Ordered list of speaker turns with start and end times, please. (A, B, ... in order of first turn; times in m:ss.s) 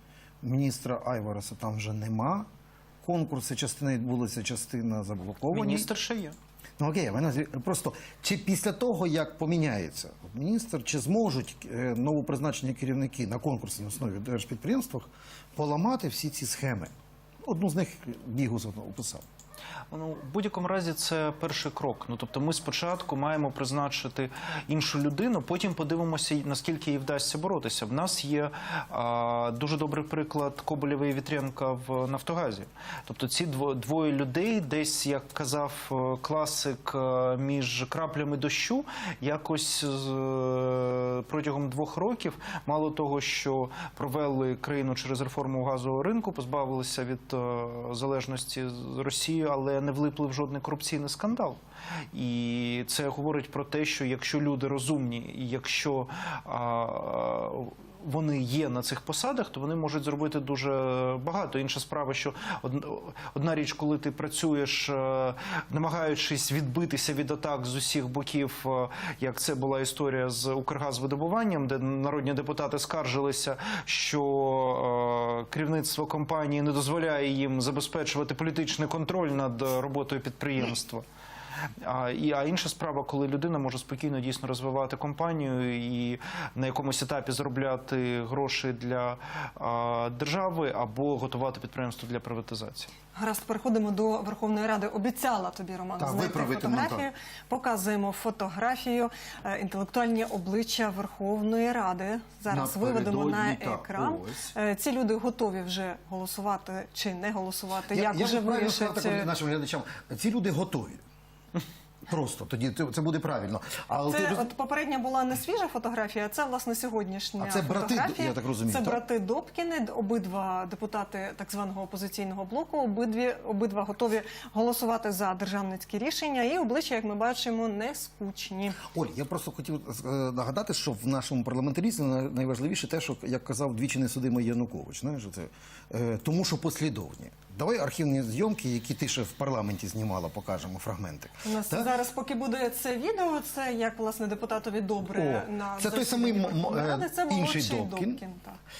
0:00.4-0:02.4 A
0:03.0-0:05.9 A
0:05.5-0:06.4 B
0:06.8-0:16.9 A
0:17.4-0:19.2 A
0:19.9-0:51.6 B
0:52.1-1:21.0 B
1:21.8-1:32.9 B
1:33.1-1:49.3 C
1:36.0-1:37.1 A
1:42.5-1:44.5 A
1:47.9-1:51.0 A
1:52.0-1:54.5 A
1:54.1-2:08.8 C
1:57.4-1:59.0 A
2:08.9-2:21.9 A
2:21.4-2:28.6 C
2:25.1-2:28.2 A